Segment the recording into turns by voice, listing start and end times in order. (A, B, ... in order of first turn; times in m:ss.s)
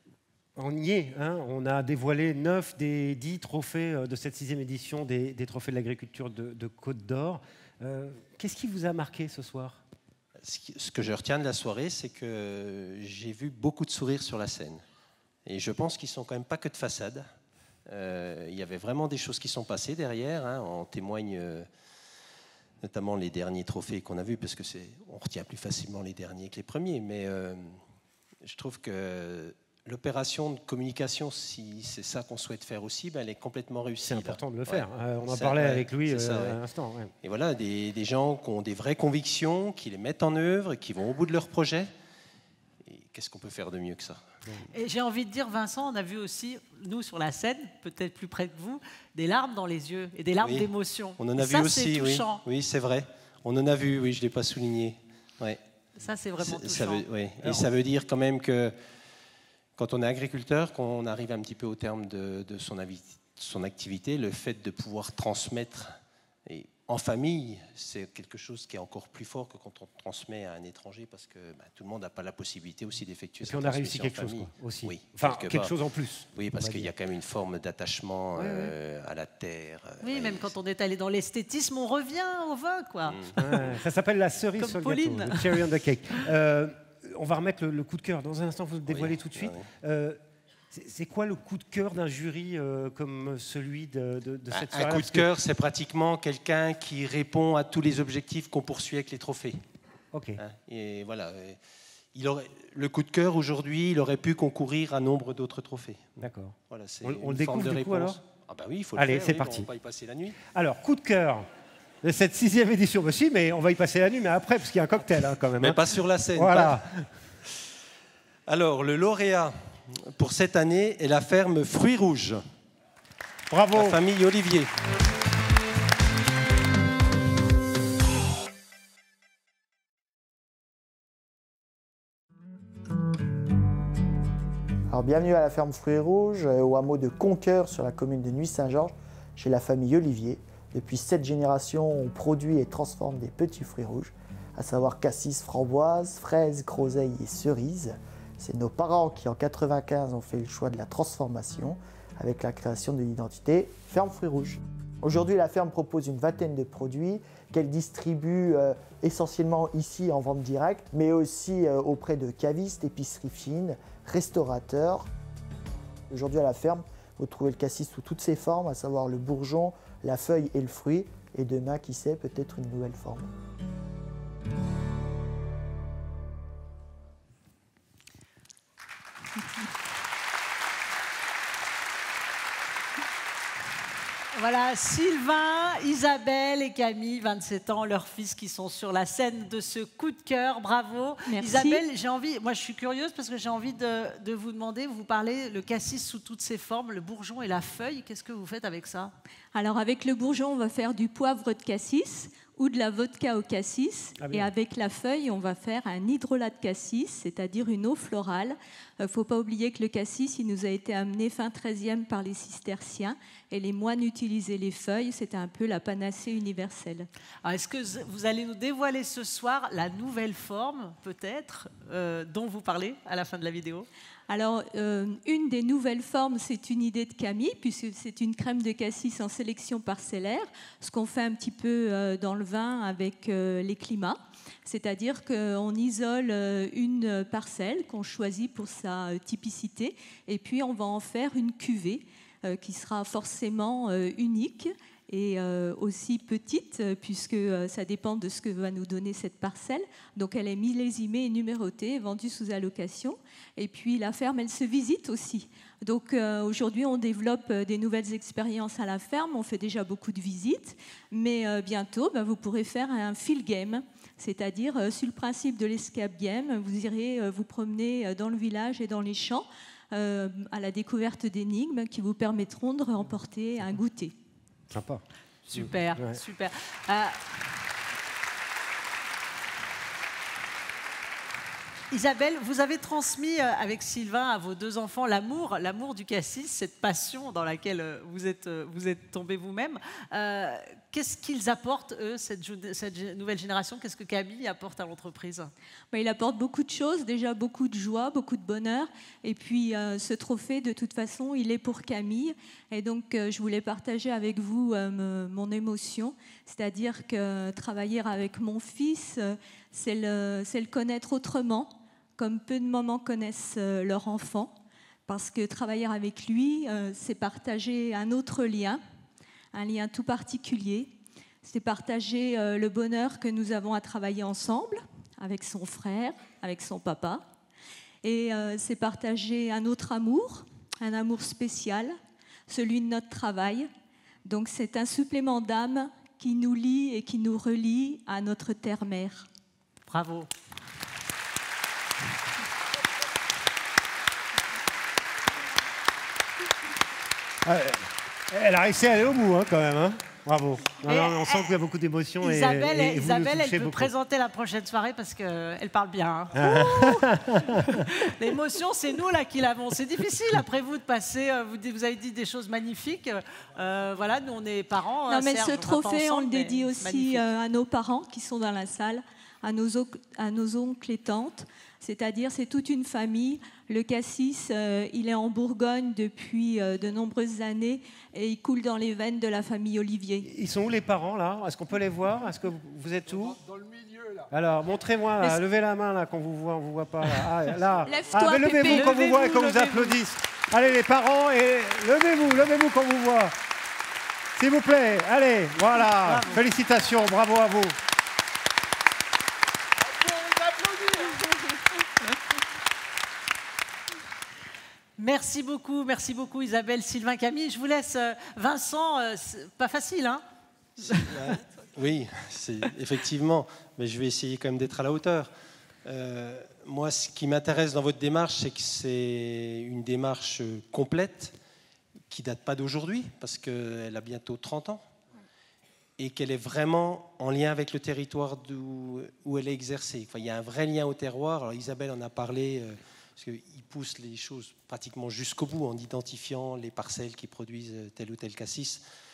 0:00.6-0:09.8 A
0:10.4-0:14.8 B
0:15.5-0:17.3 B
0:17.9-0:21.7 B
0:22.8-0:27.8 B
0:28.4-0:36.6 B
0:34.0-0:37.1 A
0:37.2-0:41.9 B
0:42.8-0:44.2 B
0:44.7-0:52.4 C
0:50.4-0:55.6 B
0:56.0-0:57.7 C
0:56.4-0:58.8 B
0:59.8-1:05.9 B
1:06.5-1:20.5 B
1:13.4-1:16.9 A
1:18.4-1:18.8 A
1:20.0-1:23.7 C
1:23.1-1:23.3 B
1:23.4-1:30.2 A
1:24.6-1:25.7 C
1:28.8-1:29.7 B
1:30.7-1:35.3 A
1:34.5-1:39.6 B
1:40.1-1:40.4 A
1:40.4-1:41.6 B
1:42.1-1:46.0 B
1:46.2-1:48.2 A
1:46.7-1:50.4 B
1:49.0-1:49.7 A
1:50.4-1:51.5 A
1:52.0-1:55.8 A
1:55.6-1:56.8 B
1:56.3-1:57.1 A
1:58.5-2:02.4 B
2:03.5-2:04.0 A
2:03.7-2:04.7 B
2:14.9-2:45.1 D
2:46.1-2:53.3 D
3:04.3-3:19.1 C
3:11.3-3:11.8 E
3:19.5-3:37.1 E
3:24.2-3:24.5 A
3:37.4-3:43.9 C
3:44.3-4:34.1 E
4:34.7-4:35.0 A
4:35.4-4:37.2 C
4:35.5-4:36.2 A
4:41.9-4:55.5 C
4:55.9-5:14.5 E
5:15.1-5:18.8 E
5:19.5-5:20.9 E
5:21.4-5:27.2 E
5:28.0-5:31.9 E
5:32.5-5:33.7 E
5:34.2-5:39.3 E
5:39.9-5:40.3 C
5:47.4-5:53.9 A
5:50.8-5:51.6 C
5:52.2-5:57.1 C
5:56.3-5:57.8 A
5:57.6-6:07.2 C
6:05.1-6:20.3 E
6:20.2-6:23.4 A
6:24.3-6:33.3 A
6:27.8-6:29.0 E
6:28.6-6:30.0 C
6:34.4-6:37.8 A
6:35.8-6:36.4 C
6:45.0-6:50.2 C
6:50.8-6:55.3 B
6:50.8-6:51.1 C
6:55.8-7:01.3 B
7:02.1-7:04.8 B
7:06.0-7:18.8 B